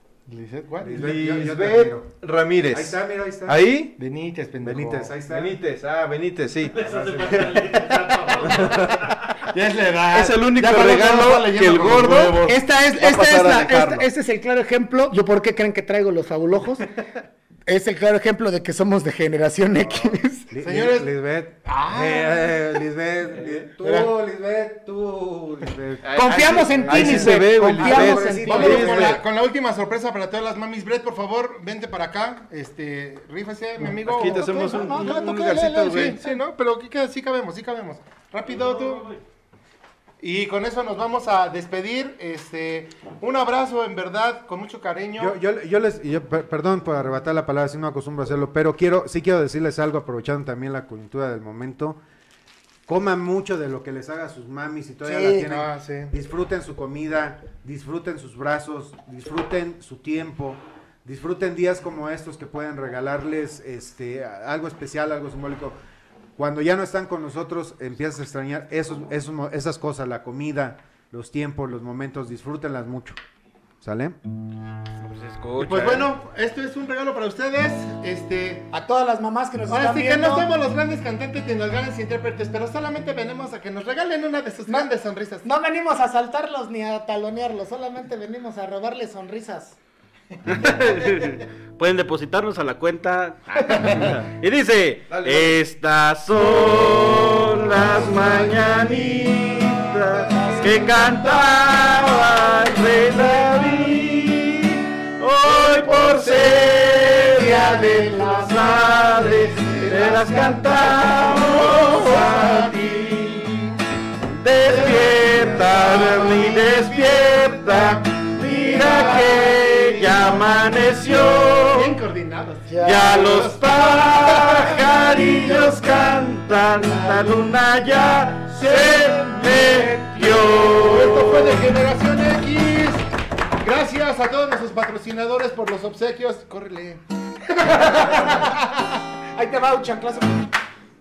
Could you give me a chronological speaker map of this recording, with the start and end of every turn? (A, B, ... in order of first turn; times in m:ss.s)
0:00.3-0:01.4 A
0:00.8-0:02.1 B
0:00.9-0:03.9 C
0:02.7-0:03.6 B
0:04.0-0:05.2 A
0:04.6-0:05.6 B
0:05.3-0:09.1 C
0:06.7-0:09.2 D
0:07.1-0:07.4 B
0:09.5-0:12.4 A
0:10.1-0:14.1 C
0:12.4-0:16.9 E
0:17.7-0:20.5 E
0:20.5-0:29.2 B
0:20.6-0:21.1 A
0:21.6-0:22.7 A
0:23.8-0:24.1 A
0:26.0-0:29.2 C
0:26.1-0:28.8 E
0:28.4-0:35.2 A
0:33.9-0:36.2 C
0:34.2-0:36.3 E
0:35.9-0:39.1 A
0:38.4-0:39.2 D
0:40.2-0:45.4 A
0:45.2-0:52.0 B
0:52.9-1:05.8 B
0:55.0-0:55.5 E
0:55.5-0:56.1 A
1:06.4-1:13.2 B
1:13.8-1:14.2 B
1:15.0-1:16.1 D
1:15.6-1:18.7 A
1:18.7-1:20.5 E
1:19.7-1:25.4 A
1:25.4-1:29.8 E
1:30.7-1:39.1 D
1:35.0-1:35.6 C
1:37.8-1:41.1 E
1:39.7-1:40.0 D
1:40.7-1:43.8 D
1:43.2-1:44.0 E
1:45.2-1:47.9 D
1:46.0-1:46.5 E
1:47.1-1:51.1 E
1:49.0-1:52.8 D
1:51.0-1:53.6 A
1:54.3-2:01.9 D
1:54.8-1:57.4 A
1:55.7-1:56.5 E
1:58.3-2:00.2 E
1:58.7-2:00.1 A
2:01.6-2:04.8 A
2:02.7-2:03.3 E
2:02.8-2:11.4 D
2:08.7-2:13.0 A
2:09.1-2:10.1 E
2:13.6-2:17.0 A
2:17.6-2:18.7 E
2:19.3-2:20.5 E